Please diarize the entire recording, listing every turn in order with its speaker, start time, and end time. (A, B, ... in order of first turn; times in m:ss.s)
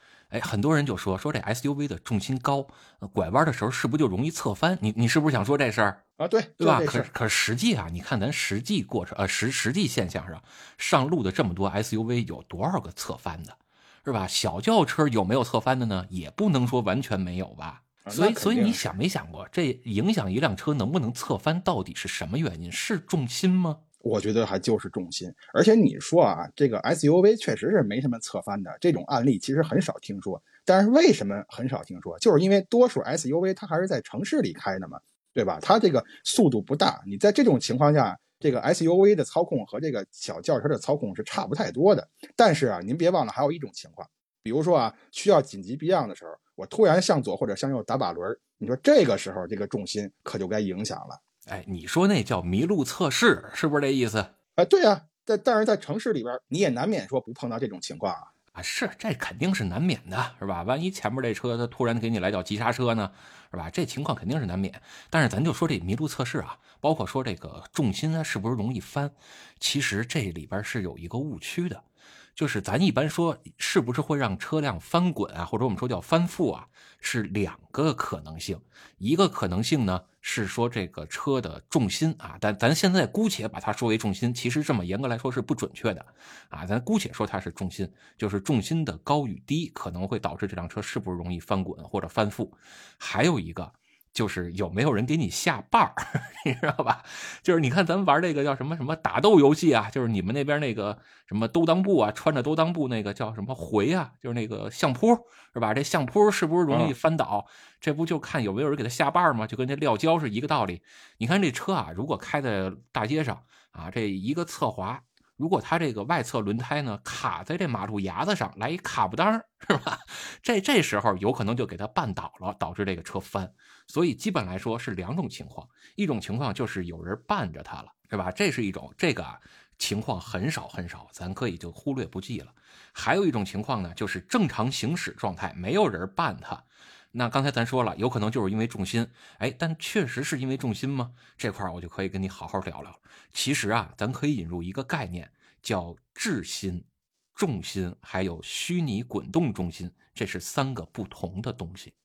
0:00.3-0:06.0 A
0:06.2-0:07.1 B
0:06.6-0:23.8 A
0:18.0-0:18.8 B
0:24.0-0:51.2 B
0:51.5-0:54.3 A
0:54.6-0:58.3 B
0:58.5-1:11.8 A
1:12.4-2:31.9 A
1:46.7-1:47.0 B